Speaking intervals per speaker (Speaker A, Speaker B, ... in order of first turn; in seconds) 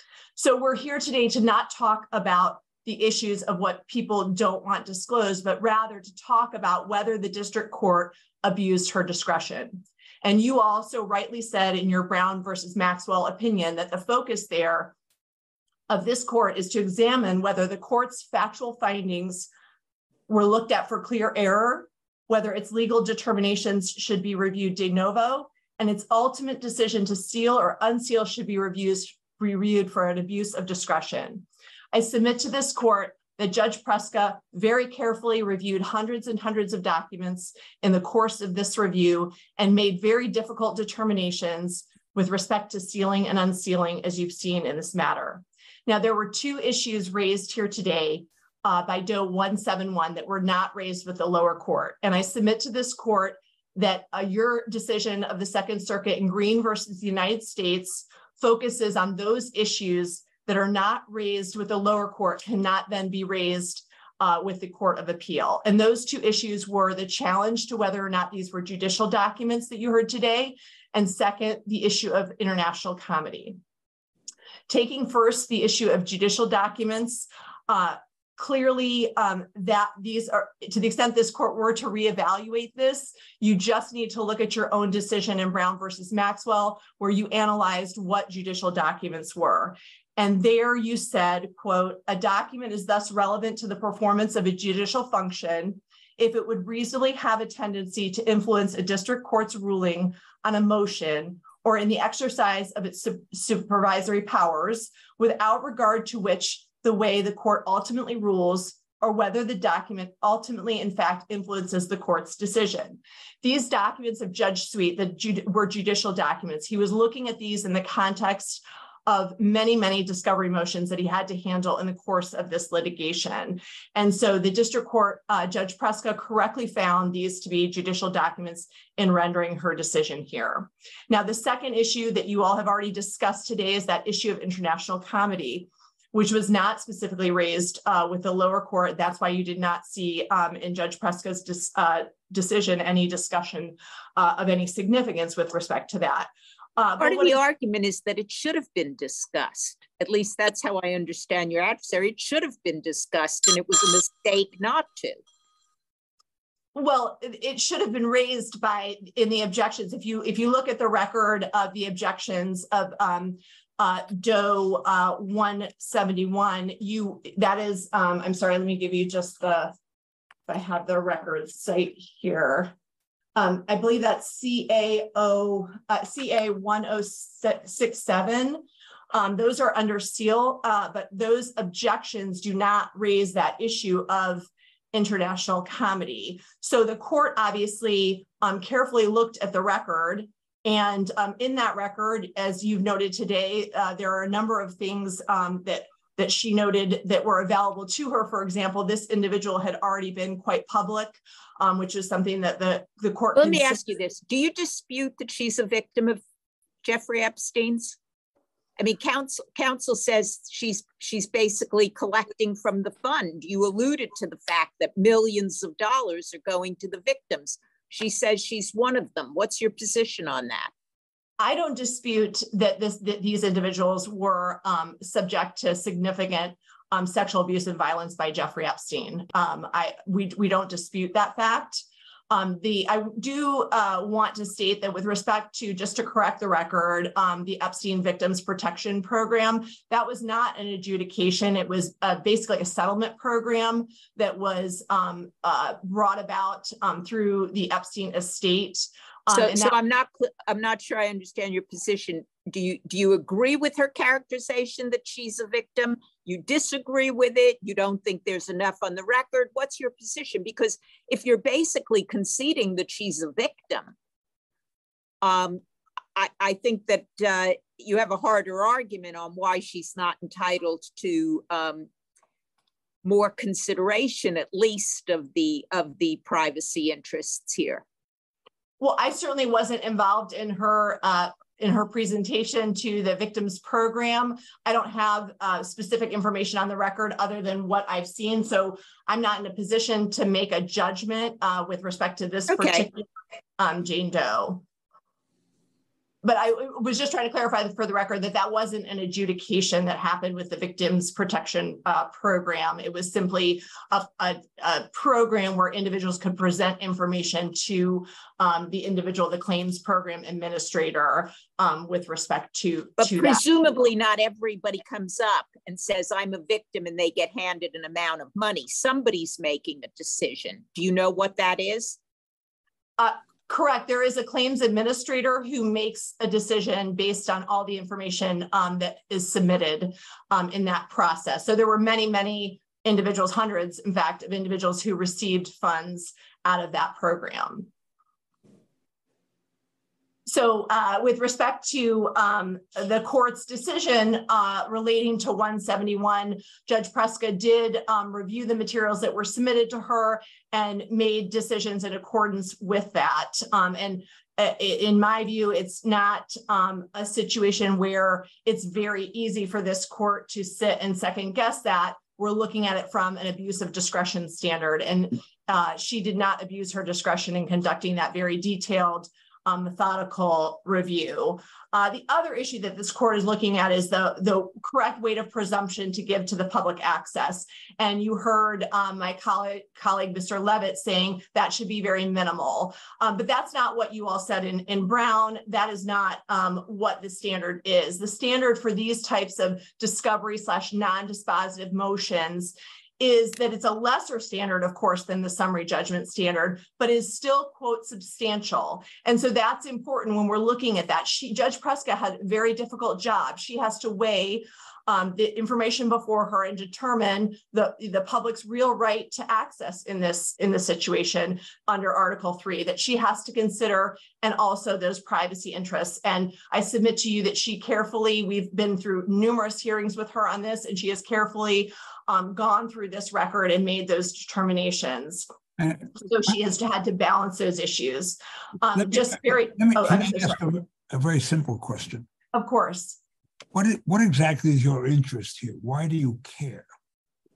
Speaker A: 0.4-14.9, 15.9-19.5, 20.3-73.6, 74.7-147.4, 156.8-169.7, 170.5-172.8, 173.3-203.9, 221.4-249.8, 278.8-293.1, 293.6-294.6, 296.2-313.4, 323.0-337.7, 340.3-425.3, 425.9-430.4, 432.3-433.0
Speaker B: 147.0-155.2, 203.3-206.2, 206.8-208.0, 208.8-220.7, 249.3-263.9, 265.2-265.6, 266.1-271.9, 273.0-277.8, 292.5-292.9, 313.0-322.0
Speaker C: 425.6-425.9, 428.7-432.1, 433.5-436.7